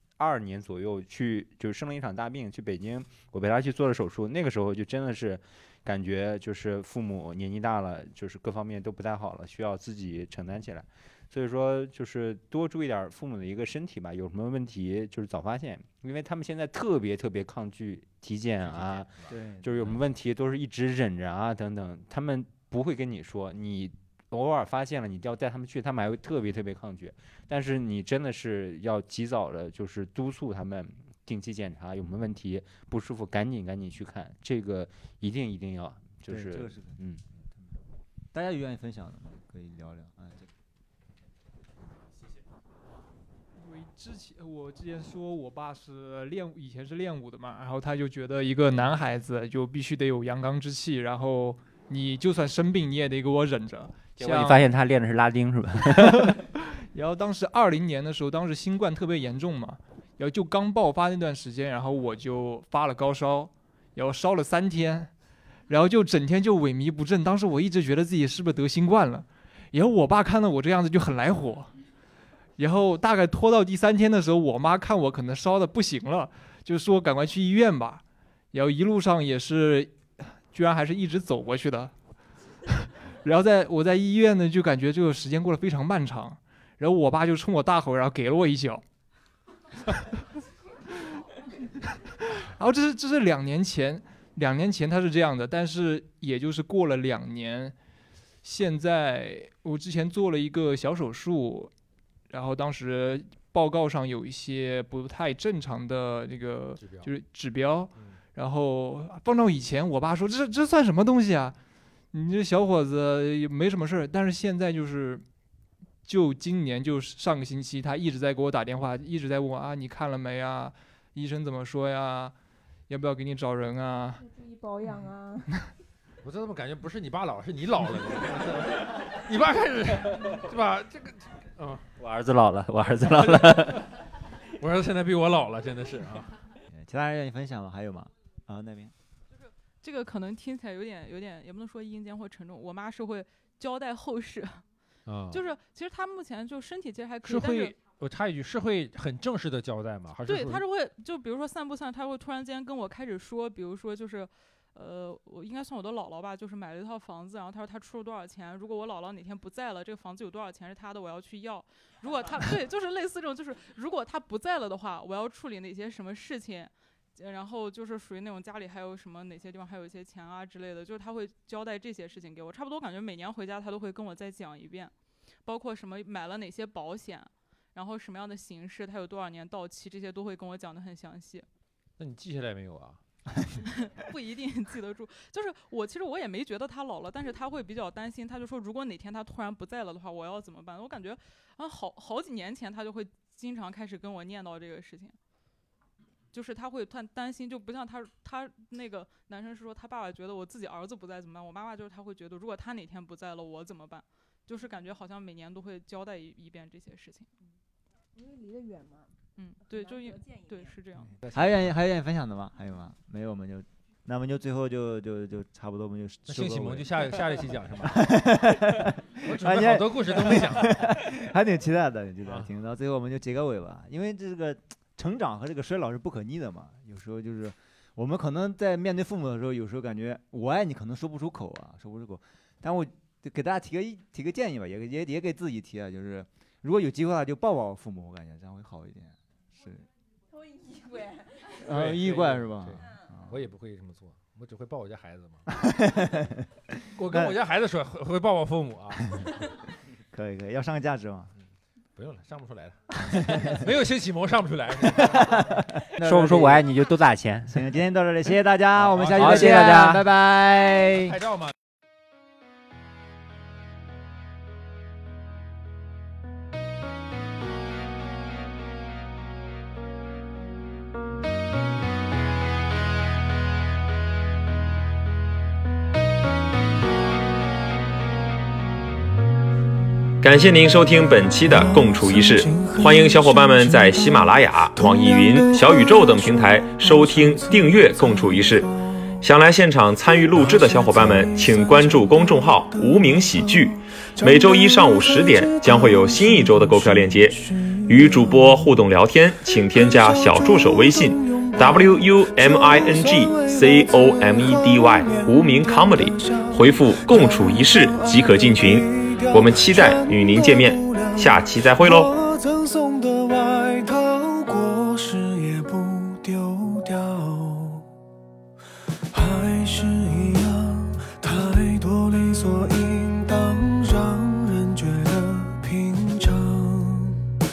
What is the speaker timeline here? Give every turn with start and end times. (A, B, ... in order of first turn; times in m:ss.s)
0:00.2-0:37.2 A
0:18.8-0:19.3 B
0:19.3-0:19.8 C
0:36.3-0:37.0 C
0:37.5-0:37.8 C
0:38.3-0:40.5 C
0:43.6-0:54.6 D
0:54.2-0:56.4 A
0:55.9-1:05.1 D
1:05.7-1:11.7 D
1:12.6-1:21.9 D
1:22.7-1:28.8 D
1:31.9-1:37.8 D
1:38.4-1:41.7 D
1:42.3-1:51.6 D
1:46.8-1:47.1 B
1:52.1-1:55.2 D
1:56.0-2:02.3 D
2:02.9-2:04.2 D
2:04.2-2:05.5 E
2:06.2-2:11.9 B
2:12.0-2:13.8 A
2:13.2-2:13.8 B
2:14.5-2:16.4 B
2:16.7-2:18.9 C
2:19.3-2:24.6 F
2:25.1-2:25.4 B
2:25.3-2:27.8 F
2:27.2-2:30.6 B
2:30.3-2:54.9 F
2:55.4-3:01.5 F
3:02.0-3:03.0 B
3:03.6-3:15.2 F
3:16.3-3:27.3 F
3:28.1-3:29.2 E
3:29.4-3:31.1 F
3:29.7-3:30.7 E
3:31.2-3:31.7 B
3:31.3-3:59.9 C
3:36.3-3:38.4 B
3:39.2-3:40.9 B
4:00.3-4:01.6 E
4:01.6-4:03.4 C
4:01.7-4:05.5 B
4:02.8-4:03.1 E
4:05.6-4:06.5 C
4:06.9-4:09.4 B
4:07.1-4:07.3 C
4:10.1-4:11.3 C
4:12.0-4:15.6 B
4:13.2-4:13.6 C
4:14.9-4:16.7 C
4:16.0-4:17.6 A
4:17.5-4:21.2 C
4:18.8-4:19.8 B
4:19.2-4:20.1 A
4:21.0-4:21.5 B
4:40.2-4:48.7 G
4:41.3-4:49.2 H
4:49.2-4:57.4 G
4:50.0-5:17.9 H
4:57.9-5:12.1 G
5:19.1-5:27.3 H